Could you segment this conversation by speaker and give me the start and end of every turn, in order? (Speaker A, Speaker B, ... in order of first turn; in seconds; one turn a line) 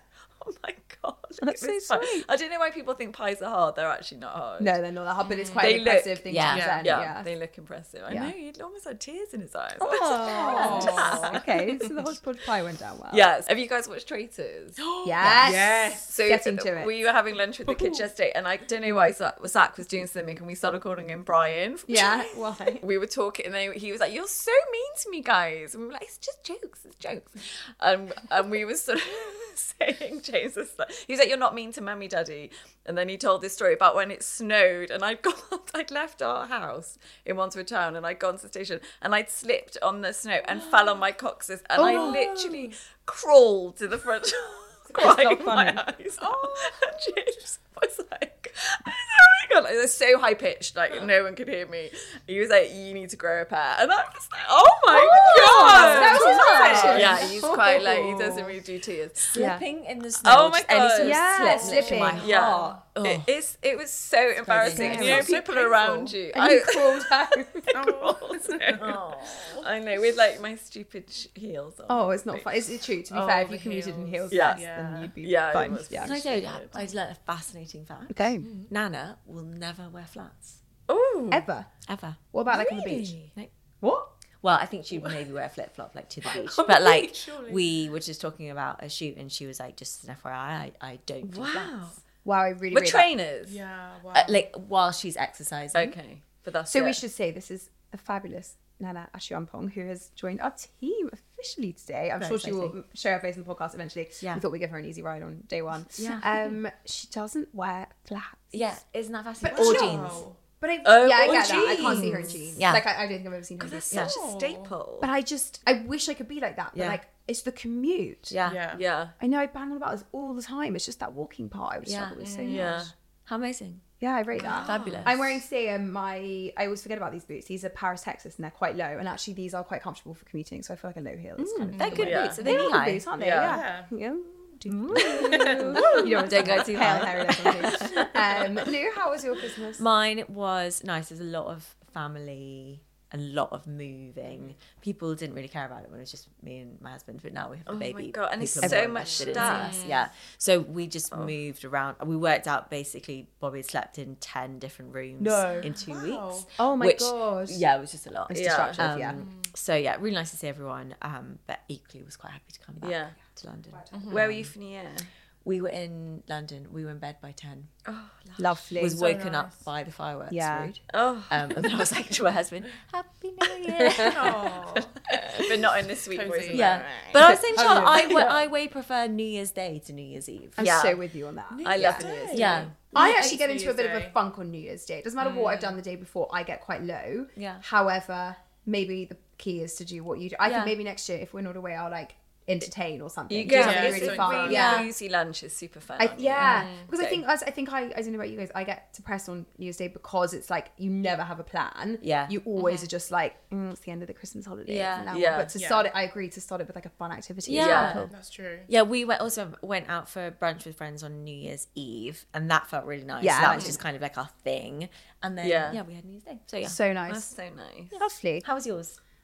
Speaker A: 0.4-4.8
Speaker B: 1.4-2.3
Speaker B: 4.6-7.3
Speaker C: 5.2-5.7
Speaker A: 5.6-11.9
Speaker D: 6.3-6.7
Speaker C: 6.5-6.9
Speaker B: 8.1-8.3
Speaker B: 9.8-13.3
Speaker C: 10.2-11.4
Speaker A: 13.1-15.5
Speaker C: 14.8-16.1
Speaker B: 15.0-16.9
Speaker A: 16.0-72.5
Speaker B: 17.7-18.1
Speaker B: 21.9-22.8
Speaker B: 41.8-42.6
Speaker C: 41.9-42.2
Speaker B: 44.9-45.9
Speaker C: 46.2-46.7
Speaker B: 55.2-58.6
Speaker D: 55.2-57.3
Speaker C: 55.7-57.1
Speaker D: 59.3-63.3
Speaker B: 59.3-59.6
Speaker B: 60.8-62.3
Speaker C: 61.4-62.3
Speaker D: 64.4-65.3
Speaker B: 64.7-65.4
Speaker C: 64.8-66.2
Speaker B: 66.3-67.8
Speaker C: 67.7-69.6
Speaker B: 71.9-76.2
Speaker C: 73.1-75.1
Speaker A: 74.3-74.7
Speaker A: 75.2-76.8
Speaker D: 76.0-80.6
Speaker B: 78.1-78.5
Speaker A: 80.9-81.4
Speaker B: 81.3-81.7
Speaker D: 81.9-82.2
Speaker B: 82.3-83.2
Speaker A: 82.5-83.4
Speaker B: 83.8-84.1
Speaker D: 84.4-91.8
Speaker C: 86.3-87.9
Speaker A: 91.2-92.0
Speaker B: 92.2-93.1
Speaker A: 92.7-93.6
Speaker C: 93.4-94.4
Speaker D: 94.1-95.9
Speaker A: 95.7-97.0
Speaker B: 96.7-108.8
Speaker D: 102.2-102.7
Speaker D: 106.0-106.3
Speaker D: 108.5-110.2
Speaker B: 109.4-114.1
Speaker C: 109.5-110.4
Speaker A: 110.8-112.4
Speaker D: 111.2-112.8
Speaker A: 113.6-115.1
Speaker C: 114.0-114.7
Speaker B: 115.0-118.3
Speaker D: 118.3-118.7
Speaker C: 118.4-118.8
Speaker A: 118.7-119.1
Speaker B: 119.2-122.9
Speaker D: 121.8-122.4
Speaker C: 122.2-122.8
Speaker A: 122.5-122.9
Speaker D: 123.3-123.8
Speaker B: 124.0-139.8
Speaker C: 124.4-125.0
Speaker D: 124.6-125.2
Speaker D: 131.4-133.2
Speaker C: 131.8-132.2
Speaker A: 131.9-133.6
Speaker C: 133.3-133.9
Speaker D: 134.7-137.5
Speaker A: 134.9-138.2
Speaker C: 135.2-136.3
Speaker D: 139.8-164.5
Speaker A: 147.7-149.9
Speaker B: 148.6-149.8
Speaker C: 149.1-150.0
Speaker B: 155.2-155.7
Speaker C: 155.5-156.5
Speaker B: 156.6-157.6
Speaker B: 158.3-159.2
Speaker A: 158.3-158.8
Speaker C: 159.2-159.5
Speaker A: 162.8-163.2
Speaker B: 163.7-164.3
Speaker C: 163.9-164.3
Speaker A: 164.1-165.1
Speaker D: 165.4-167.7
Speaker A: 167.8-168.4
Speaker B: 168.4-169.0
Speaker D: 168.8-174.3
Speaker C: 169.0-169.7
Speaker B: 170.3-170.8
Speaker A: 170.9-171.8
Speaker A: 173.6-174.4
Speaker C: 174.0-175.1
Speaker A: 175.1-178.4
Speaker C: 176.1-177.0
Speaker D: 176.5-180.8
Speaker B: 177.2-177.9
Speaker C: 177.6-178.0
Speaker B: 180.6-182.2
Speaker A: 180.6-180.9
Speaker C: 181.5-184.2
Speaker D: 181.7-182.7
Speaker A: 181.7-182.7
Speaker B: 182.9-194.9
Speaker A: 193.3-197.2
Speaker C: 193.4-194.8
Speaker D: 193.4-194.9
Speaker B: 196.0-208.1
Speaker D: 202.0-202.3
Speaker D: 204.7-205.0
Speaker A: 204.8-205.6
Speaker C: 205.6-205.9
Speaker D: 207.4-208.1
Speaker A: 207.6-208.1
Speaker C: 207.7-208.7
Speaker D: 208.7-216.8
Speaker B: 213.2-213.8
Speaker A: 215.4-215.8
Speaker B: 216.6-217.3
Speaker A: 217.1-218.0
Speaker B: 217.9-218.4
Speaker D: 218.4-219.0